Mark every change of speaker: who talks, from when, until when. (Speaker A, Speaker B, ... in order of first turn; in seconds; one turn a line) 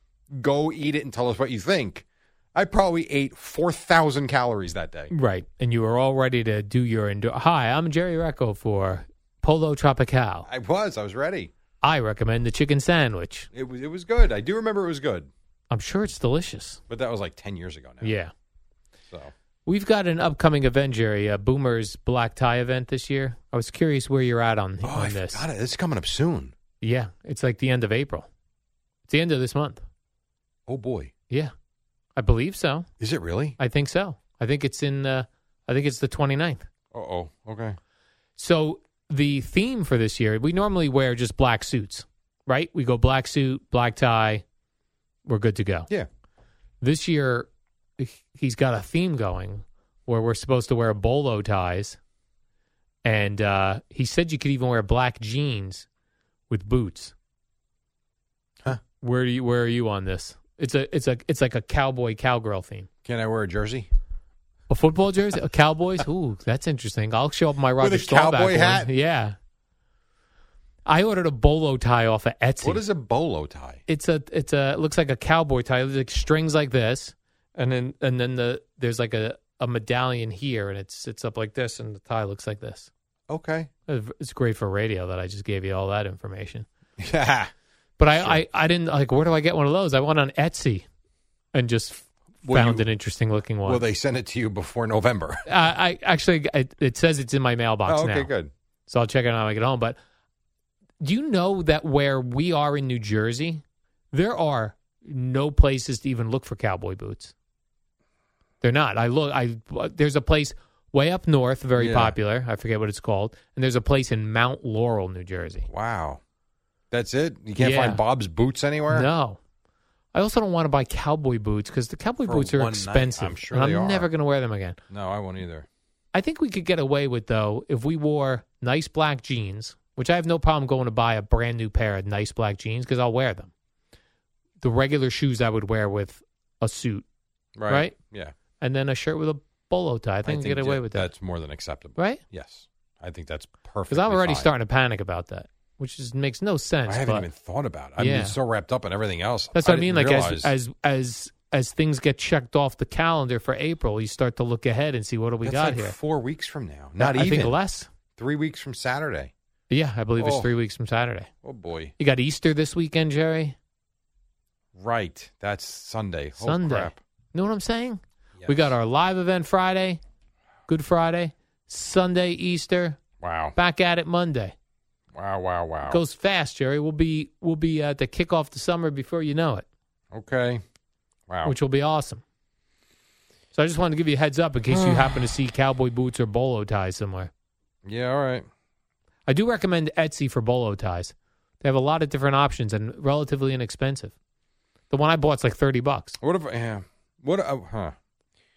Speaker A: 0.3-5.1
Speaker B: 5.1-10.5
Speaker A: 10.5-11.5
Speaker B: 11.8-13.5
Speaker A: 13.5-15.3
Speaker B: 15.7-16.8
Speaker A: 16.9-18.1
Speaker B: 18.0-18.3
Speaker B: 19.7-25.4
Speaker A: 24.8-26.5
Speaker B: 26.8-28.3
Speaker B: 29.1-29.9
Speaker A: 30.7-31.1
Speaker B: 32.2-32.9
Speaker A: 33.0-33.6
Speaker B: 33.6-36.7
Speaker A: 36.9-37.8
Speaker B: 38.4-44.4
Speaker B: 45.2-45.9
Speaker B: 46.8-52.0
Speaker B: 53.0-55.9
Speaker B: 56.5-57.1
Speaker B: 58.7-62.9
Speaker A: 63.0-63.9
Speaker B: 64.7-69.4
Speaker A: 67.8-68.9
Speaker B: 70.9-72.8
Speaker A: 72.6-73.8
Speaker B: 73.9-82.9
Speaker A: 83.3-83.7
Speaker B: 83.9-86.7
Speaker A: 87.0-87.5
Speaker B: 88.0-90.9
Speaker A: 88.2-88.4
Speaker B: 91.5-93.8
Speaker A: 92.4-92.8
Speaker A: 93.7-95.5
Speaker B: 95.5-98.3
Speaker A: 97.9-98.5
Speaker B: 98.9-100.0
Speaker B: 101.0-107.3
Speaker B: 108.6-115.7
Speaker A: 111.8-112.2
Speaker A: 115.7-116.2
Speaker A: 116.9-119.1
Speaker B: 117.6-118.0
Speaker B: 118.9-119.4
Speaker B: 120.1-124.8
Speaker A: 122.2-124.1
Speaker A: 124.9-125.7
Speaker B: 126.1-133.5
Speaker B: 134.6-137.1
Speaker A: 137.6-138.3
Speaker B: 137.7-137.9
Speaker B: 138.6-141.1
Speaker A: 140.2-144.5
Speaker B: 142.0-142.2
Speaker B: 143.9-147.3
Speaker A: 146.9-150.5
Speaker B: 148.0-148.4
Speaker B: 149.5-155.9
Speaker A: 155.4-157.6
Speaker B: 157.0-157.9
Speaker A: 158.2-159.3
Speaker B: 159.7-161.3
Speaker A: 160.2-160.5
Speaker A: 161.4-161.9
Speaker B: 162.0-163.6
Speaker A: 164.8-167.0
Speaker B: 166.4-170.0
Speaker B: 170.7-173.0
Speaker A: 173.2-173.6
Speaker B: 173.5-174.5
Speaker A: 175.1-176.0
Speaker B: 175.9-179.7
Speaker A: 180.1-180.6
Speaker A: 181.3-181.5
Speaker B: 181.4-182.2
Speaker B: 183.5-187.3
Speaker A: 184.7-185.2
Speaker A: 187.8-188.5
Speaker B: 189.3-194.1
Speaker B: 194.9-196.2
Speaker A: 196.2-197.9